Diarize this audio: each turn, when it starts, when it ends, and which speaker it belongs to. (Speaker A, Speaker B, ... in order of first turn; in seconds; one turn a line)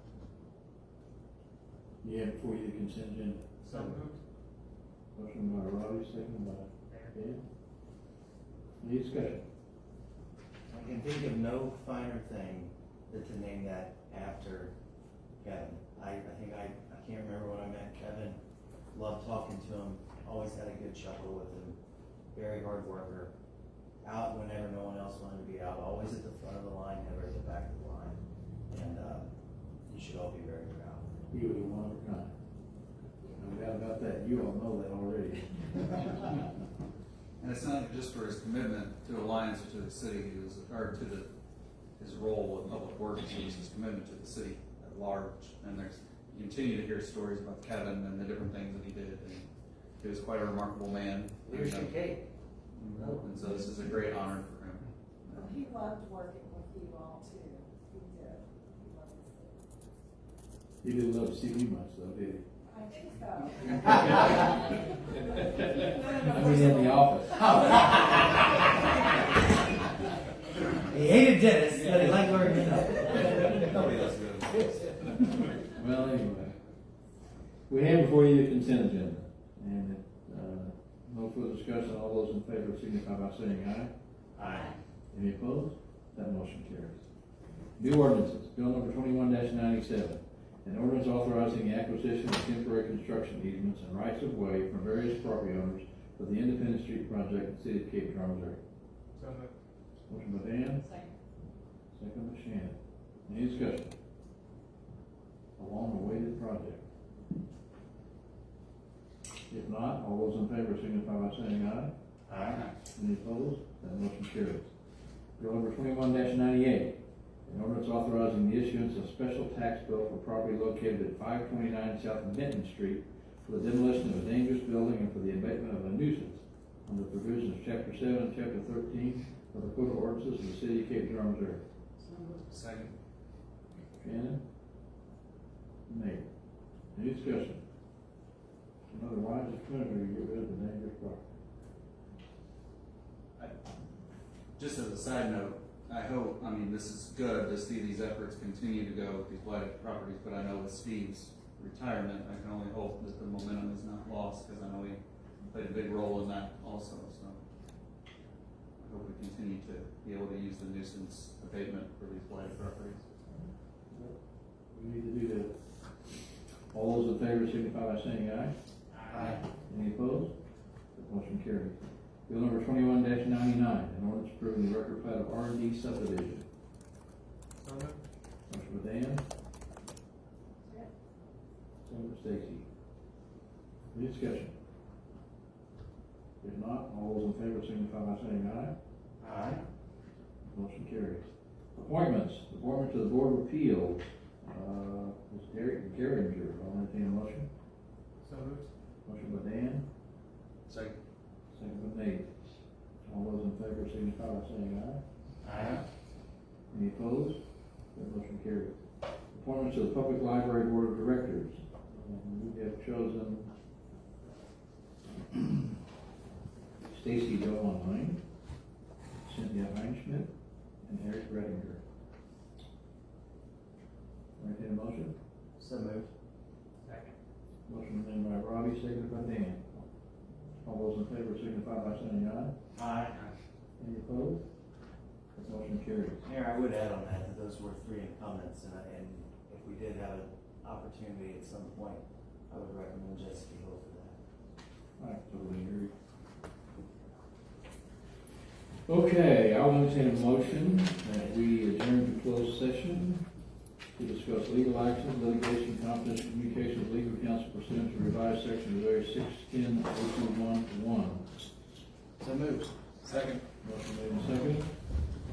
Speaker A: 2.0-3.5
Speaker B: 3.6-4.2
Speaker C: 3.7-4.0
Speaker A: 5.1-7.4
Speaker A: 8.8-9.4
Speaker C: 10.7-14.7
Speaker C: 15.4-18.4
Speaker C: 18.9-21.8
Speaker C: 22.3-23.3
Speaker C: 24.0-28.2
Speaker C: 28.7-29.3
Speaker C: 29.9-31.2
Speaker A: 31.3-32.3
Speaker A: 33.4-36.3
Speaker D: 37.4-41.3
Speaker D: 42.0-49.5
Speaker D: 50.0-52.0
Speaker C: 51.5-52.3
Speaker D: 52.8-55.6
Speaker C: 52.9-53.5
Speaker E: 55.3-59.7
Speaker A: 60.8-62.4
Speaker E: 62.7-64.8
Speaker A: 65.6-67.8
Speaker E: 65.8-66.5
Speaker C: 67.4-68.6
Speaker C: 70.8-75.2
Speaker A: 75.7-76.5
Speaker A: 77.7-83.9
Speaker C: 84.4-84.8
Speaker A: 85.1-87.0
Speaker A: 87.8-98.6
Speaker B: 99.2-99.5
Speaker A: 100.1-100.8
Speaker E: 100.8-101.1
Speaker A: 102.0-102.8
Speaker A: 103.3-103.9
Speaker A: 105.6-106.8
Speaker A: 109.5-111.9
Speaker C: 112.3-112.7
Speaker A: 112.9-114.7
Speaker A: 115.4-131.6
Speaker B: 132.1-132.4
Speaker D: 132.5-132.9
Speaker A: 134.0-134.4
Speaker A: 135.9-136.2
Speaker A: 136.9-137.6
Speaker A: 138.9-141.2
Speaker D: 144.6-155.0
Speaker D: 155.5-157.4
Speaker D: 158.8-163.1
Speaker A: 164.7-165.5
Speaker A: 166.7-168.5
Speaker C: 169.1-169.4
Speaker A: 169.7-170.3
Speaker A: 170.9-171.8
Speaker A: 172.3-176.4
Speaker B: 177.6-178.0
Speaker A: 178.5-179.2
Speaker A: 181.8-182.7
Speaker A: 183.9-184.5
Speaker A: 186.4-188.7
Speaker C: 189.2-189.6
Speaker A: 190.5-191.2
Speaker A: 191.8-197.5
Speaker B: 198.2-198.7
Speaker A: 199.1-199.8
Speaker A: 201.6-202.3
Speaker A: 203.1-205.0
Speaker C: 205.4-205.8
Speaker A: 206.7-207.4
Speaker A: 207.9-208.8
Speaker A: 209.3-213.5
Speaker A: 216.8-218.2
Speaker A: 219.2-220.3
Speaker A: 220.8-221.8
Speaker A: 224.4-225.1
Speaker C: 225.6-226.1
Speaker B: 226.8-227.1
Speaker A: 227.7-229.7
Speaker A: 230.6-232.5
Speaker C: 232.7-233.3
Speaker A: 233.8-234.4
Speaker A: 235.3-236.2
Speaker C: 236.2-244.2
Speaker A: 245.0-245.9
Speaker A: 248.9-253.2
Speaker A: 253.9-261.2
Speaker C: 262.2-263.3
Speaker A: 263.6-264.7